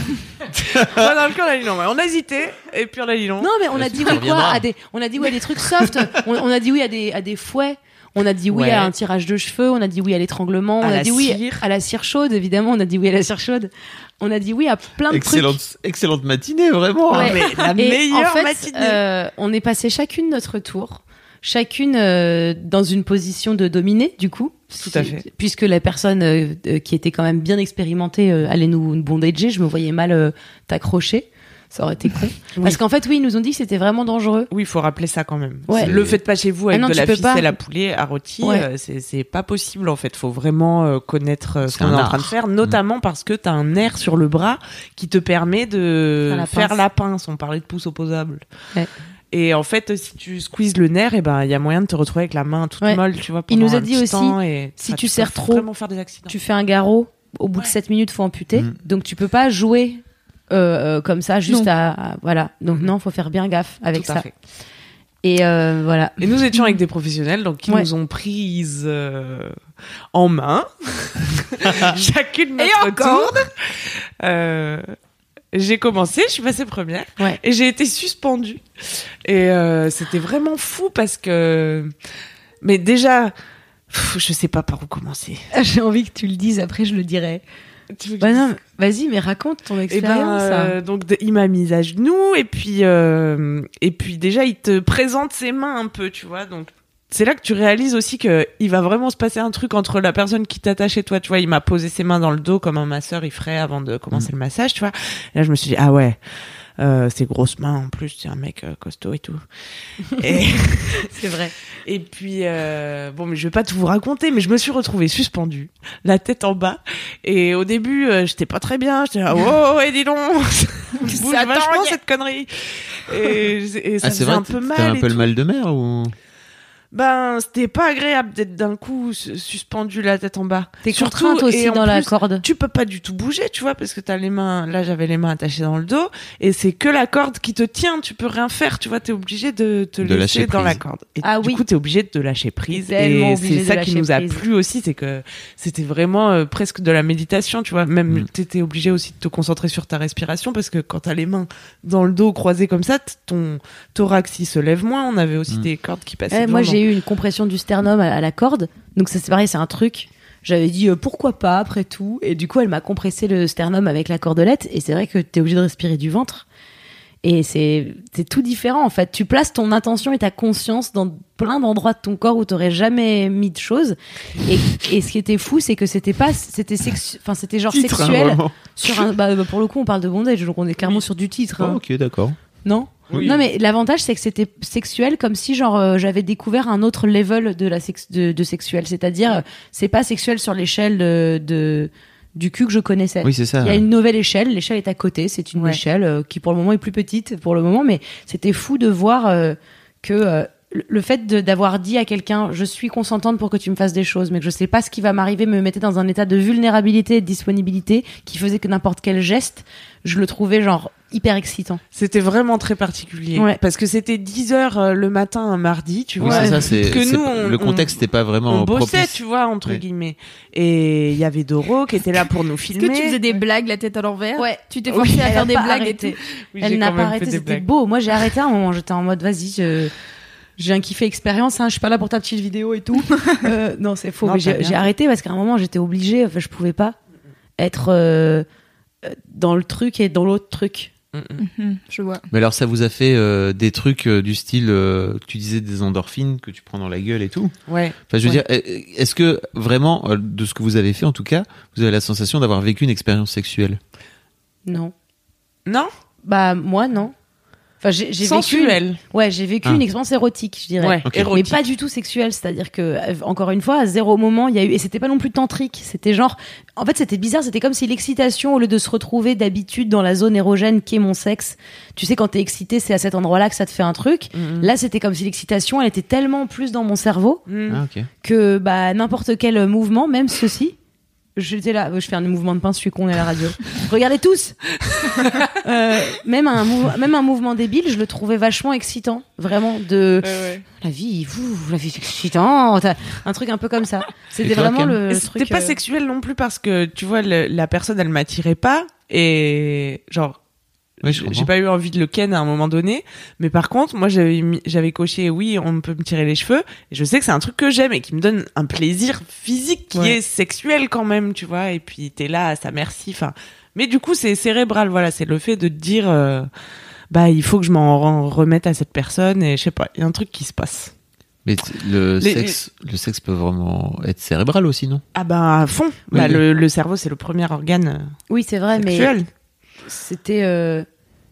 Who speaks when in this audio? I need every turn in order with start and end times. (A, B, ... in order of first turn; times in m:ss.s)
0:00.5-0:03.5 A
0:00.8-0:01.0 B
0:03.4-0:15.6 C
0:03.7-0:04.6 B
0:08.5-0:08.9 A
0:10.8-0:11.6 A
0:15.1-0:17.4 B
0:17.1-0:19.0 A
0:17.1-0:34.5 C
0:24.8-0:25.2 A
0:34.5-0:48.4 A
0:35.7-0:36.0 C
0:35.8-0:36.2 B
0:36.7-0:37.6 C
0:38.4-0:38.7 C
0:41.7-0:42.8 B
0:46.3-0:46.8 C
0:49.3-0:56.3 A
0:52.8-0:55.6 C
0:56.3-1:04.2 C
1:03.9-1:04.3 A
1:05.2-1:06.3 C
1:06.2-1:09.5 A
1:10.1-1:14.9 A
1:12.6-1:13.4 D
1:15.5-1:21.9 A
1:22.6-1:23.3 A
1:23.9-1:25.4 A
1:25.5-1:27.4 C
1:27.9-1:28.5 A
1:28.2-1:30.8 C
1:29.9-1:46.2 A
1:46.8-1:49.4 A
1:50.1-1:51.1 A
1:51.0-1:51.5 C
1:51.8-2:05.3 A
2:01.0-2:02.0 D
2:04.0-2:06.1 B
2:06.9-2:36.8 A
2:10.8-2:12.4 C
2:20.0-2:20.8 B
2:21.2-2:21.6 C
2:22.7-2:24.4 C
2:36.3-2:46.4 C
2:47.2-3:01.8 C
2:57.7-2:59.0 B
3:01.6-3:02.4 B
3:02.6-3:31.8 C
3:03.1-3:03.4 A
3:13.2-3:13.8 B
3:31.9-3:43.2 A
3:36.2-3:39.8 B
3:36.2-3:36.6 C
3:42.8-3:46.1 D
3:44.4-3:49.9 C
3:46.5-3:47.7 A
3:50.6-3:57.0 C
3:54.2-3:54.8 A
3:57.6-3:58.4 C
3:59.0-4:00.9 C
4:01.1-4:01.4 A
4:01.4-4:02.2 D
4:02.3-4:07.5 B
4:07.7-4:08.4 A
4:08.1-4:13.8 B
4:14.6-4:14.9 C
4:16.2-4:17.1 C
4:17.8-4:37.4 C
4:18.2-4:19.0 A
4:20.8-4:21.6 A
4:21.1-4:21.3 B
4:34.4-4:34.7 A
4:37.5-4:37.8 A
4:37.7-4:38.1 B
4:38.2-4:40.8 C
4:41.4-4:44.6 C
4:44.9-4:45.4 A
4:45.2-4:55.8 C
4:50.2-4:50.6 A
4:54.4-4:55.0 B
4:55.1-5:00.4 A
5:01.0-5:01.5 B
5:01.0-5:16.5 A
5:17.1-5:20.9 A
5:21.4-5:25.0 B
5:22.2-5:22.6 A
5:25.1-5:28.1 A
5:26.1-5:26.4 B
5:28.3-5:29.1 C
5:28.8-5:29.3 A
5:29.8-5:30.8 C